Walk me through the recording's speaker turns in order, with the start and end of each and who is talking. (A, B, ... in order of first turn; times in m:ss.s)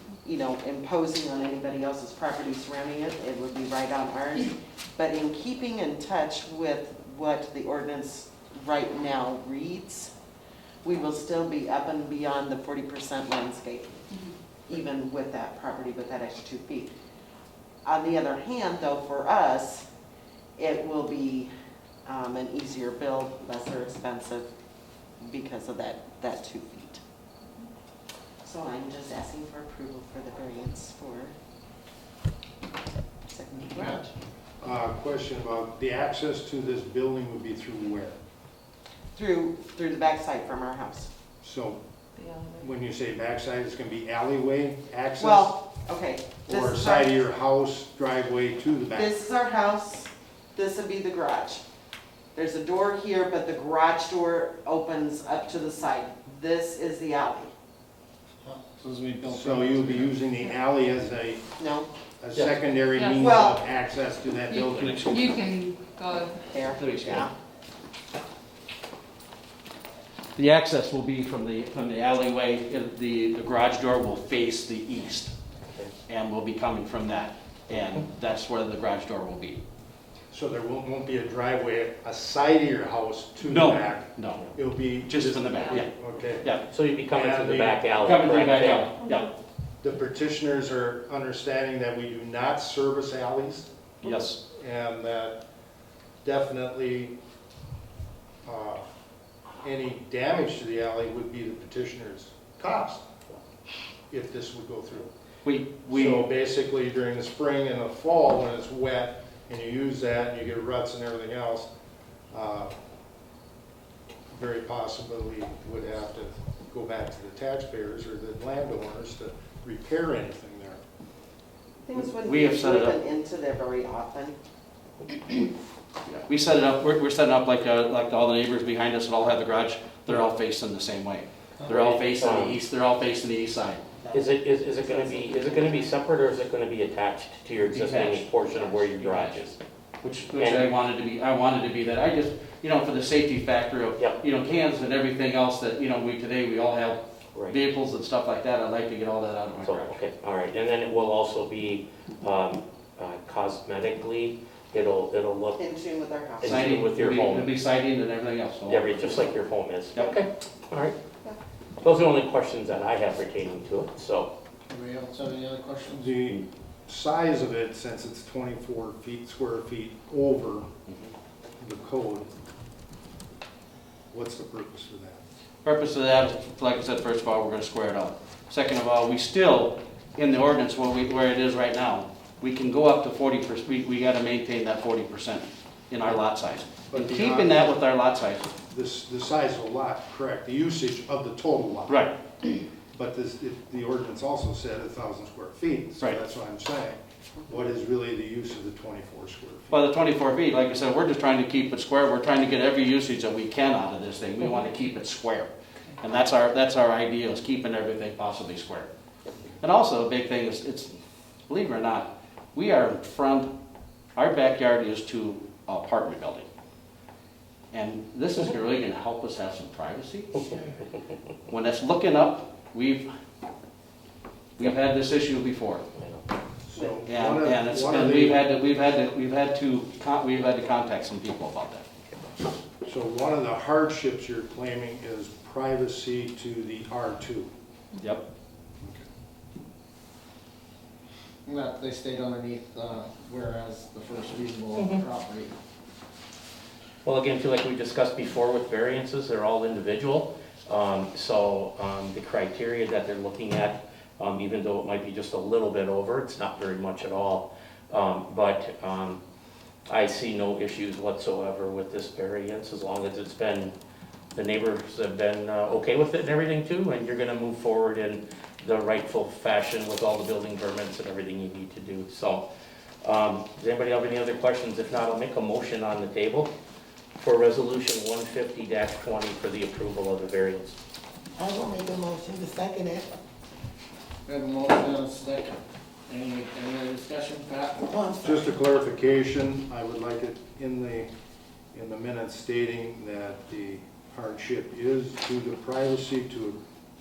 0:00.2-0:10.1 A
0:10.8-0:14.0 A
0:14.7-0:16.9 A
0:17.8-0:19.9 A
0:20.6-0:21.5 A
0:22.1-0:24.5 A
0:25.2-0:27.0 A
0:28.4-0:31.3 A
0:33.3-0:34.1 A
0:34.6-0:38.2 B
0:39.1-0:41.1 A
0:41.4-0:41.8 B
0:42.5-0:45.6 B
0:45.2-0:47.1 A
0:46.5-0:49.1 B
0:48.9-0:51.6 A
0:52.4-0:57.5 A
0:58.4-1:00.2 C
0:59.3-1:01.4 B
1:01.6-1:01.9 A
1:02.2-1:05.4 B
1:03.0-1:03.3 D
1:03.2-1:03.6 A
1:04.5-1:06.5 D
1:06.5-1:07.3 A
1:06.8-1:07.3 E
1:10.4-1:15.3 E
1:16.1-1:19.6 E
1:20.3-1:26.4 B
1:23.4-1:24.5 E
1:25.1-1:25.9 E
1:26.7-1:28.9 F
1:27.1-1:27.8 B
1:28.0-1:29.3 E
1:29.8-1:33.7 B
1:34.0-1:34.4 E
1:34.5-1:35.4 B
1:36.2-1:37.2 B
1:38.4-1:38.8 B
1:39.6-1:43.1 B
1:44.1-1:45.1 B
1:45.4-1:46.3 E
1:45.9-1:51.7 B
1:52.3-1:52.7 B
1:54.3-2:00.8 B
2:01.8-2:04.4 A
2:02.2-2:03.0 E
2:06.1-2:13.9 E
2:11.7-2:12.6 F
2:14.1-2:19.6 F
2:17.6-2:19.5 E
2:20.0-2:30.0 E
2:20.4-2:20.7 F
2:29.6-2:35.6 F
2:35.6-2:36.7 A
2:36.4-2:37.5 F
2:36.4-2:39.3 E
2:38.7-2:41.0 F
2:41.8-2:44.3 F
2:44.7-2:46.2 C
2:45.9-2:50.7 B
2:51.6-2:52.3 B
2:54.1-2:55.2 B
2:55.6-3:08.5 E
3:06.9-3:07.8 B
3:08.6-3:12.1 B
3:11.9-3:12.1 E
3:12.9-3:17.0 B
3:17.5-3:19.8 B
3:19.7-3:28.9 E
3:29.6-3:30.9 E
3:31.5-3:33.5 E
3:34.2-3:36.5 E
3:37.7-3:40.5 E
3:40.4-3:40.7 F
3:41.5-3:43.1 E
3:44.6-3:45.8 E
3:46.0-3:46.2 F
3:46.7-3:48.4 B
3:46.8-3:47.0 A
3:47.1-3:51.8 E
3:52.8-3:57.5 B
3:58.8-3:59.1 B
4:01.5-4:05.6 C
4:07.0-4:19.2 F
4:19.9-4:23.7 F
4:24.4-4:32.5 F
4:33.0-4:36.5 F
4:37.2-4:40.8 F
4:41.4-4:43.1 G
4:44.3-4:47.8 C
4:47.8-4:48.4 G
4:48.2-4:51.1 B
4:51.7-4:56.6 B